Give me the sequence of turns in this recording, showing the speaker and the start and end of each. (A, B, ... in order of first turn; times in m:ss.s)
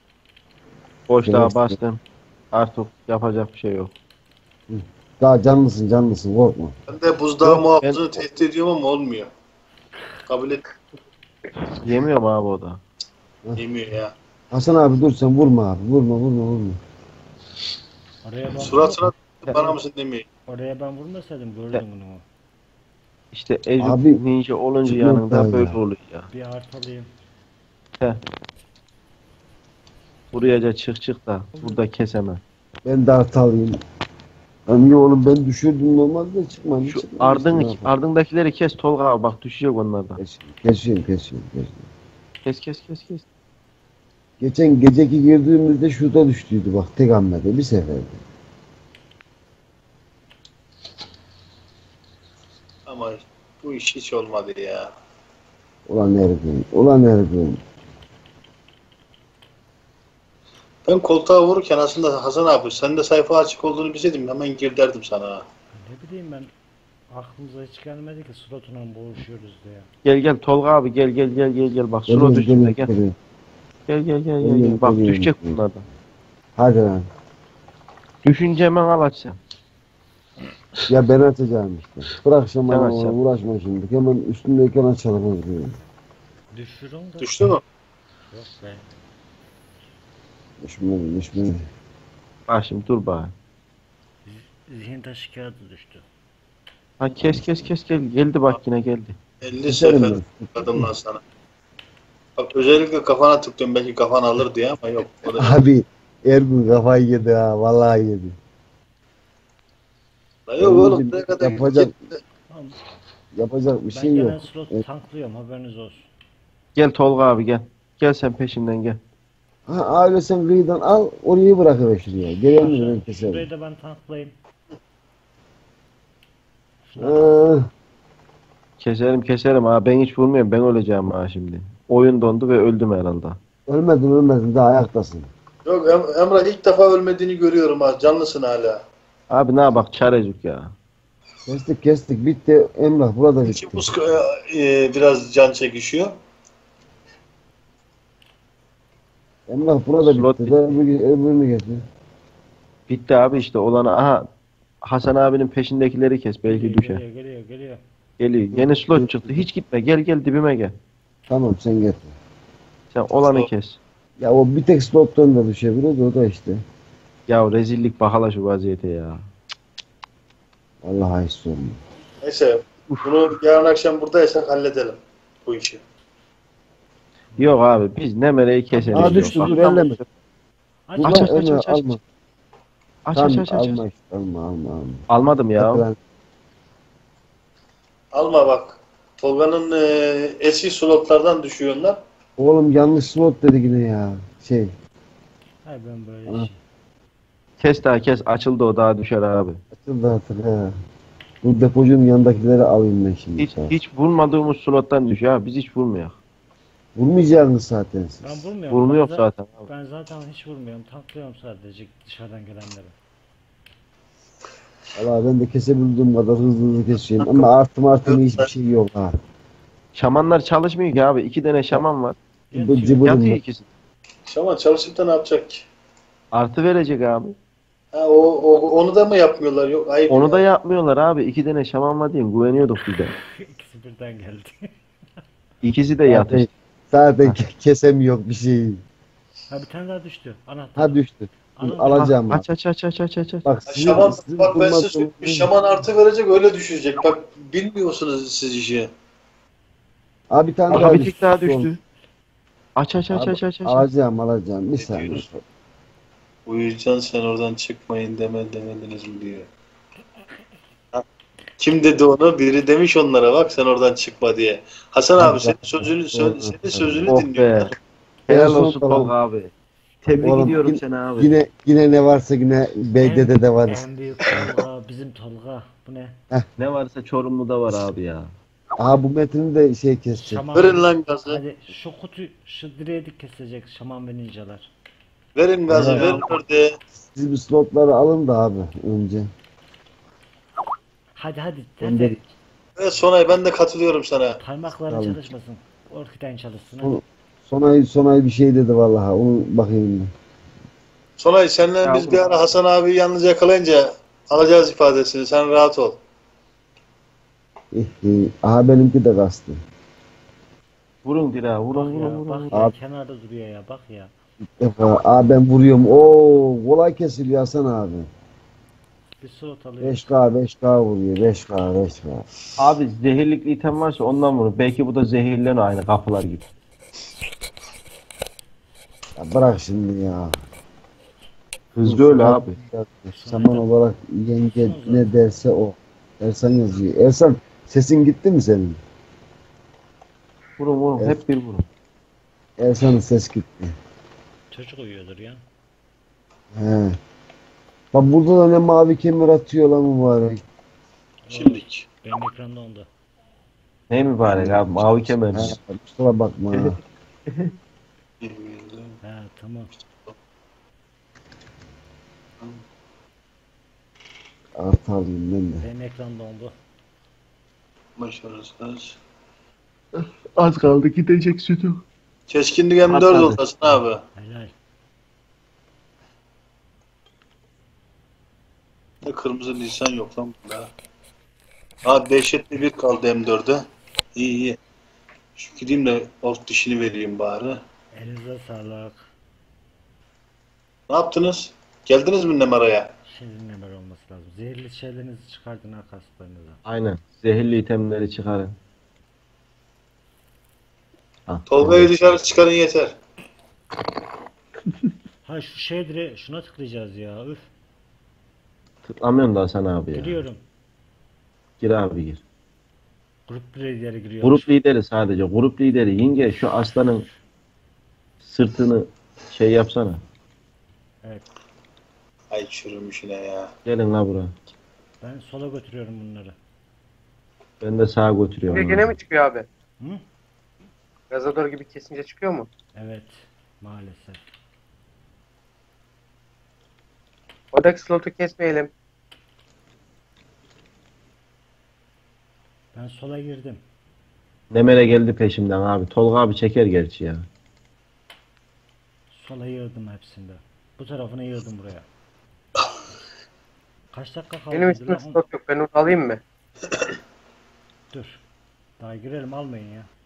0:01.1-0:02.0 A
0:01.2-0:01.8 B
0:02.5-0:03.9 A
0:04.7-0:06.7 B
0:06.9-0:09.3 C
0:07.4-0:08.2 A
0:10.3-0:10.6 C
0:11.8-0:12.8 A
0:13.6-0:14.1 C
0:14.5-0:16.8 B
0:18.2-0:19.0 D
0:18.6-0:20.2 C
0:20.5-0:22.2 D
0:23.3-0:26.3 A
0:23.8-0:24.2 B
0:24.8-0:25.8 B
0:26.3-0:27.1 D
0:30.3-0:32.4 A
0:32.8-0:33.8 B
0:34.7-0:37.9 B
0:36.9-0:40.2 A
0:40.2-0:41.9 B
0:42.4-0:43.2 A
0:44.4-0:48.2 B
0:52.9-0:54.9 C
0:55.9-0:57.6 B
1:00.8-1:05.4 C
1:05.7-1:06.5 D
1:07.1-1:09.9 D
1:10.0-1:12.9 A
1:12.1-1:13.1 B
1:13.9-1:15.8 A
1:14.4-1:15.6 B
1:16.6-1:17.1 B
1:18.2-1:19.4 A
1:20.9-1:25.7 B
1:22.7-1:23.2 A
1:26.5-1:27.5 D
1:27.2-1:27.6 C
1:28.3-1:28.9 D
1:30.6-1:31.7 B
1:32.5-1:33.3 A
1:34.2-1:36.0 D
1:37.0-1:39.2 A
1:39.4-1:41.2 C
1:39.7-1:40.9 B
1:42.4-1:45.6 C
1:45.3-1:48.4 B
1:50.5-1:51.9 C
1:50.6-1:51.9 B
1:52.5-1:52.8 D
1:53.3-1:54.8 B
1:53.9-1:56.1 D
1:56.8-1:59.0 A
1:59.7-2:03.4 B
2:02.5-2:04.3 D
2:06.9-2:07.5 D
2:07.0-2:07.7 B
2:08.8-2:13.4 A
2:13.7-2:15.3 B
2:15.6-2:18.8 C
2:19.3-2:20.7 A
2:21.4-2:23.9 B
2:23.4-2:26.1 C
2:29.5-2:31.8 B
2:30.0-2:30.8 A
2:32.9-2:34.2 A
2:34.8-2:37.0 A
2:36.5-2:37.8 D
2:38.2-2:40.7 A
2:38.5-2:39.4 B
2:41.3-2:42.1 B
2:42.9-2:43.8 A
2:44.2-2:46.6 B
2:47.3-2:49.2 A
2:50.8-2:51.8 B
2:52.2-2:55.8 C
2:57.4-3:00.0 A
2:58.7-2:59.8 D
2:58.9-3:00.0 B
3:00.9-3:01.8 D
3:01.0-3:02.0 B
3:01.0-3:01.6 A
3:03.0-3:03.8 A
3:03.1-3:05.0 B
3:05.1-3:05.8 A
3:05.6-3:06.0 B
3:08.1-3:12.0 C
3:12.4-3:14.7 B
3:15.6-3:16.6 D
3:17.6-3:19.6 A
3:19.7-3:20.7 B
3:21.4-3:23.7 B
3:23.4-3:26.2 A
3:27.0-3:28.4 B
3:28.2-3:32.9 D
3:28.7-3:29.7 A
3:34.9-3:39.1 B
3:37.2-3:37.5 C
3:38.0-3:38.4 C
3:39.9-3:42.2 A
3:42.5-3:43.1 D
3:42.5-3:43.4 B
3:43.0-3:43.7 A
3:44.3-3:45.6 C
3:46.3-3:47.4 A
3:47.9-3:50.4 C
3:50.1-3:53.1 A
3:53.2-3:54.7 D
3:55.6-3:56.5 A
3:56.1-3:58.8 B
3:59.5-4:01.0 D
4:00.8-4:02.4 B
4:01.6-4:02.1 D
4:01.9-4:03.4 A
4:03.4-4:05.5 B
4:03.7-4:08.9 C
4:10.3-4:11.7 B
4:10.7-4:11.8 A
4:12.8-4:13.8 A
4:13.1-4:15.4 B
4:14.8-4:15.2 C
4:16.5-4:19.5 C
4:21.6-4:27.7 C
4:25.2-4:27.1 B
4:27.1-4:27.7 A
4:28.3-4:29.1 B
4:28.3-4:29.5 A
4:30.0-4:31.3 A
4:30.2-4:33.8 B
4:33.0-4:36.2 D
4:36.6-4:38.3 A
4:38.8-4:40.4 B
4:40.2-4:44.7 D
4:40.5-4:41.4 C
4:45.4-4:46.7 C
4:45.7-4:46.2 B
4:47.0-4:49.3 B
4:51.2-4:52.3 D
4:51.8-4:52.2 B
4:52.8-4:54.4 C
4:54.4-4:57.0 D
4:54.9-4:55.3 B
4:56.8-5:00.1 B
5:01.2-5:06.0 C
5:01.8-5:02.4 A
5:07.7-5:09.6 B
5:11.0-5:12.6 A
5:11.7-5:14.1 D
5:14.4-5:18.1 B
5:19.2-5:20.0 D
5:19.8-5:22.2 B
5:22.6-5:26.5 A
5:29.2-5:30.4 B
5:31.7-5:32.6 A
5:31.8-5:38.8 B
5:33.1-5:33.7 D
5:34.4-5:35.2 D
5:40.6-5:41.6 A
5:42.6-5:43.7 B
5:44.5-5:45.4 D
5:46.5-5:47.0 B
5:47.9-5:50.4 B
5:51.2-5:52.9 D
5:51.3-5:51.8 C
5:53.9-5:55.6 A
5:54.3-5:56.8 B
5:57.3-5:57.5 A
5:58.2-5:59.0 C
5:59.0-5:59.7 D
6:04.6-6:05.6 B
6:05.6-6:06.5 D
6:08.0-6:09.0 C
6:10.0-6:11.8 A
6:12.3-6:14.0 C
6:12.9-6:13.4 A
6:14.1-6:14.5 D
6:19.0-6:20.7 C
6:21.8-6:23.6 C
6:24.1-6:24.6 C
6:25.4-6:27.6 C
6:27.9-6:29.0 D
6:30.9-6:32.9 C
6:33.0-6:36.6 D
6:36.6-6:38.5 A
6:41.3-6:41.9 A
6:41.5-6:42.9 C
6:45.2-6:47.4 D
6:48.8-6:50.2 A
6:49.9-6:50.4 D
6:51.6-6:52.2 A
6:53.3-6:54.5 D
6:54.2-6:57.0 A
6:58.2-7:00.0 A
7:02.3-7:03.5 C
7:03.6-7:04.4 A
7:05.0-7:06.4 D
7:07.6-7:08.9 A
7:08.5-7:09.4 E
7:11.1-7:12.5 E
7:12.8-7:14.2 D
7:17.5-7:18.7 E
7:22.7-7:23.6 D
7:24.5-7:27.2 A
7:29.1-7:31.9 D
7:33.9-7:35.2 D
7:34.5-7:36.2 E
7:37.9-7:38.2 D
7:38.8-7:39.9 D